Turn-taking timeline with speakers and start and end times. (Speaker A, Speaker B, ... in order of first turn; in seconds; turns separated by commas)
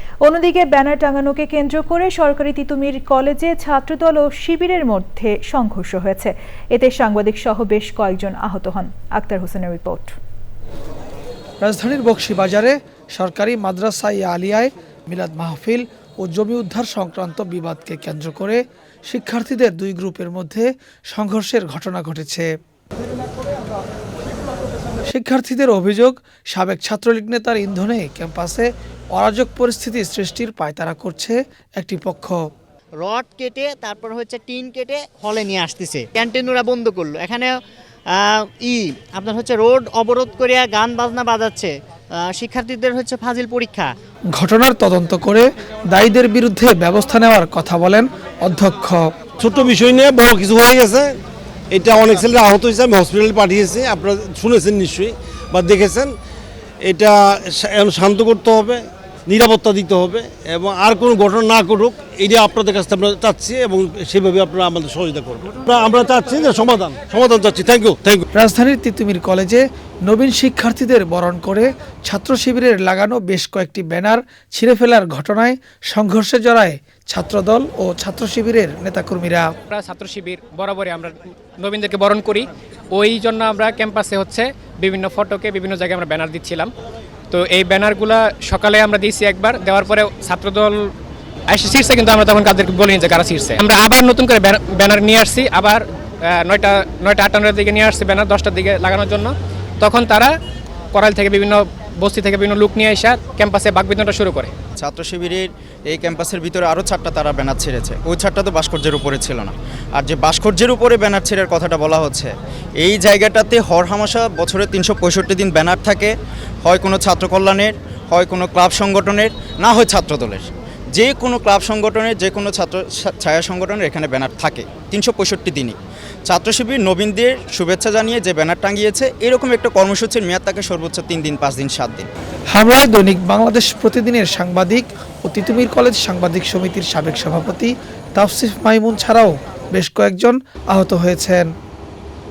Speaker A: 0.2-10.2, Speaker B: 11.6-22.5, Speaker B: 25.1-32.4, Speaker C: 33.0-37.5, Speaker C: 38.1-43.9, Speaker B: 44.3-49.0, Speaker D: 49.4-51.2, Speaker D: 51.7-56.1, Speaker D: 56.8-68.2, Speaker B: 68.3-79.5, Speaker E: 79.7-86.7, Speaker E: 87.3-90.9, Speaker E: 91.5-100.3, Speaker E: 100.9-104.5, Speaker F: 104.8-116.1, Speaker F: 116.6-132.1, Speaker B: 132.5-141.5